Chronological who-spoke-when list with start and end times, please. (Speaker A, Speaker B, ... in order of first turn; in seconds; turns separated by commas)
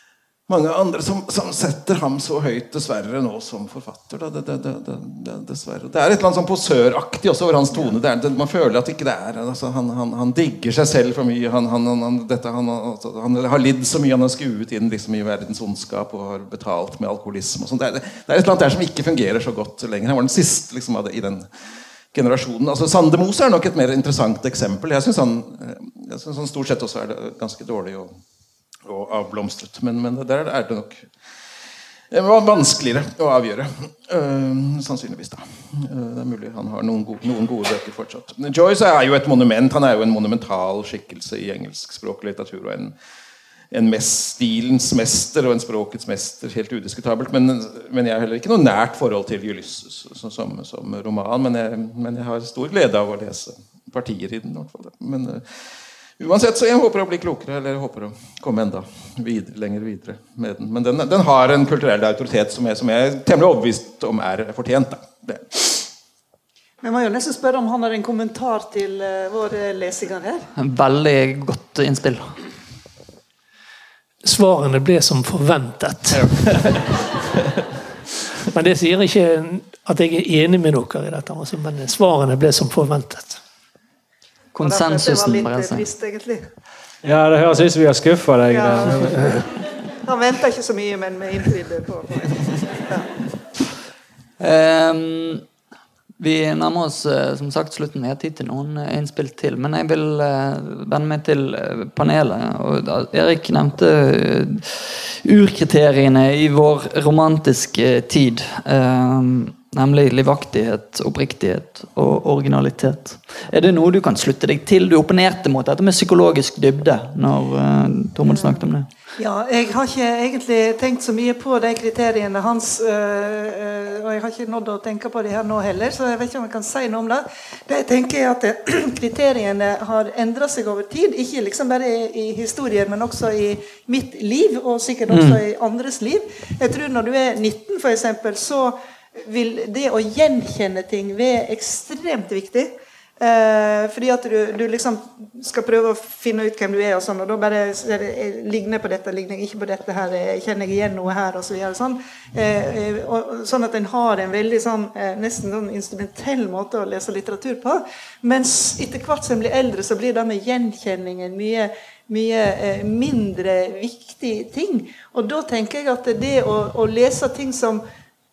Speaker A: 0.5-21.6, Speaker A: 22.1-28.2, Speaker A: 28.8-31.1, Speaker A: 32.1-43.0, Speaker A: 43.7-65.9, Speaker B: 66.8-70.5, Speaker C: 70.6-72.4, Speaker D: 74.2-77.0, Speaker A: 76.2-76.8, Speaker D: 78.5-83.4, Speaker C: 84.5-85.8, Speaker B: 84.6-86.5, Speaker E: 87.0-89.5, Speaker B: 88.5-89.4, Speaker B: 90.0-93.1, Speaker C: 94.4-95.4, Speaker C: 96.2-118.9, Speaker B: 118.3-118.6, Speaker B: 119.2-167.8, Speaker C: 135.1-135.4